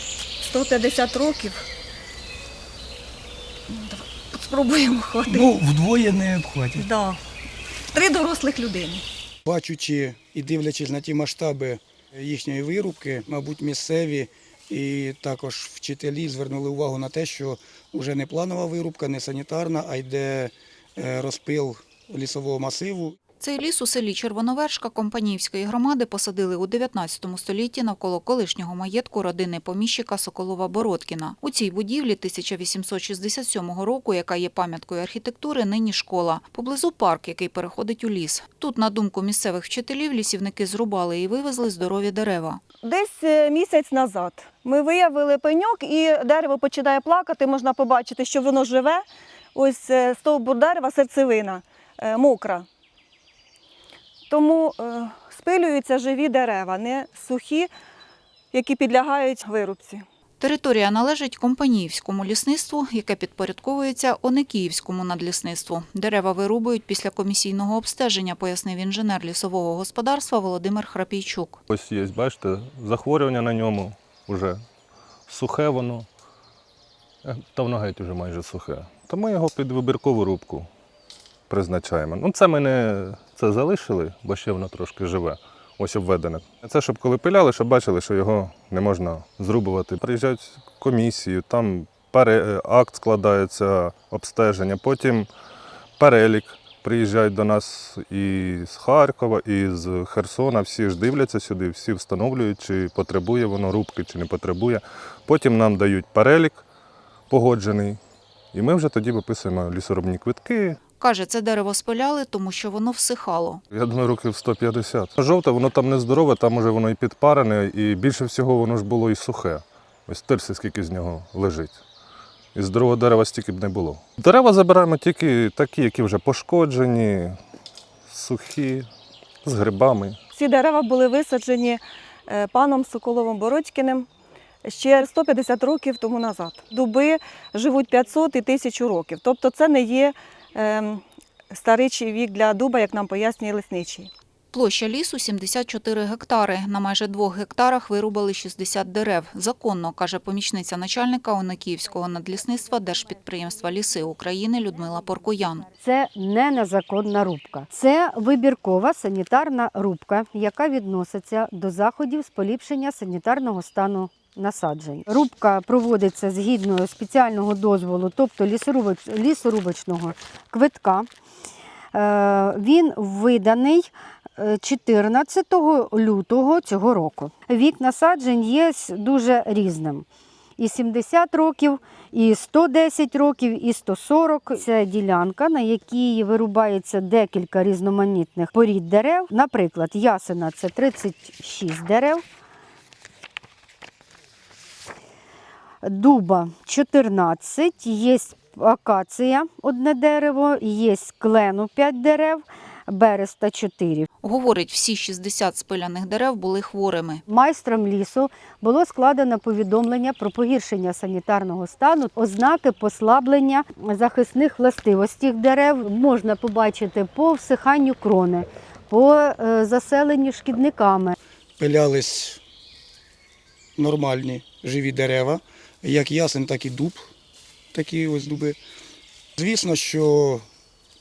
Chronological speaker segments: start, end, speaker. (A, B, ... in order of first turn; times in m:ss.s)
0:00.4-0:01.6 A
0:03.7-0:05.5 A
0:05.3-0:06.9 B
0:06.8-0:07.2 A
0:07.9-0:09.0 A
0:09.5-0:23.2 B
0:23.4-0:42.6 C
0:42.8-0:52.7 A
0:54.3-0:57.7 A
0:58.5-1:00.0 A
1:00.4-1:11.6 C
1:11.7-1:14.6 D
1:15.3-1:16.1 D
1:17.2-1:20.7 D
1:21.5-1:35.3 D
1:36.0-1:46.6 D
1:47.3-1:48.0 D
1:48.5-1:50.8 D
1:51.0-1:53.6 C
1:53.7-2:01.8 D
2:02.6-2:07.4 D
2:08.1-2:08.9 D
2:09.4-2:10.2 D
2:10.4-2:14.1 A
2:14.6-2:24.1 A
2:24.5-2:35.7 C
2:35.8-2:51.1 E
2:51.9-3:00.0 E
3:00.6-3:12.2 E
3:15.8-3:24.1 E
3:24.2-3:27.2 C
3:27.3-3:41.2 E
3:41.6-3:42.4 B
3:43.8-3:47.1 B
3:47.7-3:48.6 B
3:49.4-3:50.4 B